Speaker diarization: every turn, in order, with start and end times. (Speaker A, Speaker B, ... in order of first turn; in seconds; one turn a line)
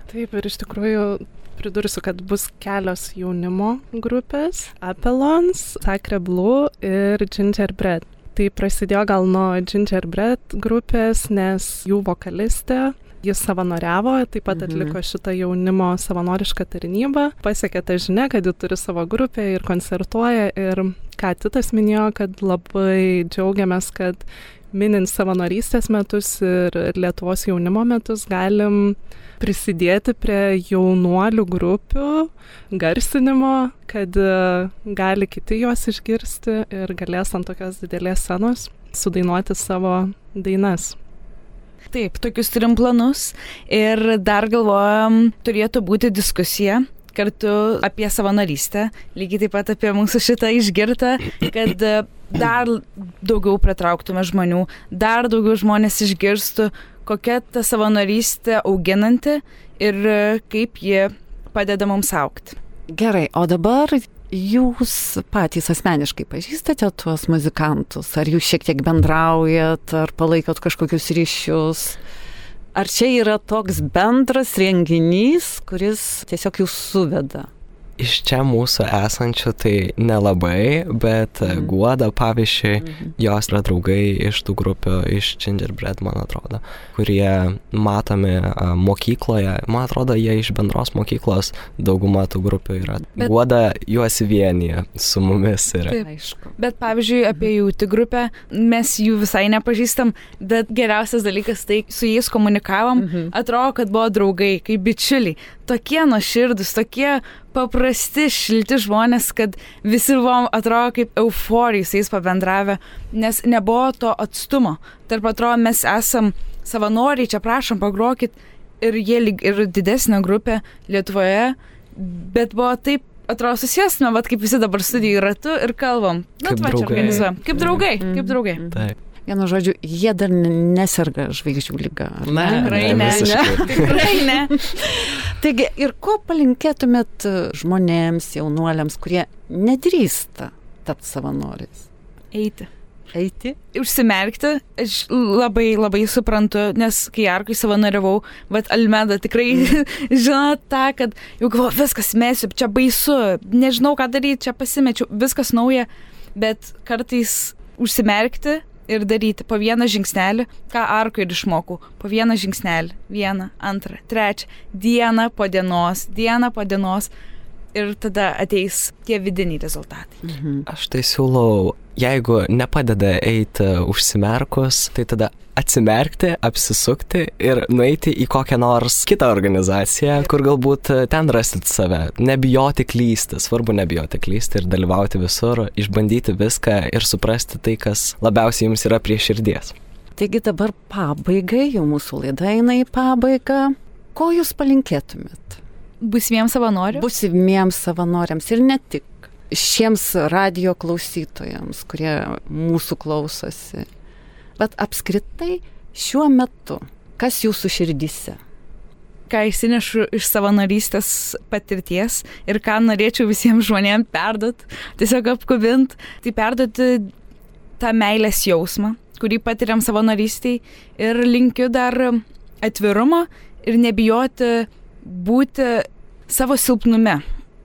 Speaker A: 0.1-41.0
Speaker B: 14.5-14.9
Speaker C: 41.9-62.6
Speaker B: 62.9-72.0
Speaker B: 72.7-77.5
Speaker D: 78.0-96.0
Speaker B: 96.0-96.5
Speaker C: 96.6-128.6
Speaker B: 103.0-103.3
Speaker D: 126.4-127.8
Speaker B: 128.0-141.9
Speaker D: 132.2-134.1
Speaker C: 132.5-134.6
Speaker C: 142.3-142.7
Speaker B: 143.1-143.6
Speaker C: 143.7-167.1
Speaker C: 167.7-170.2
Speaker B: 170.2-170.6
Speaker D: 170.7-189.7
Speaker B: 190.2-195.6
Speaker C: 196.0-197.0
Speaker B: 196.9-203.9
Speaker B: 204.6-208.4
Speaker C: 209.3-217.1
Speaker C: 217.8-227.2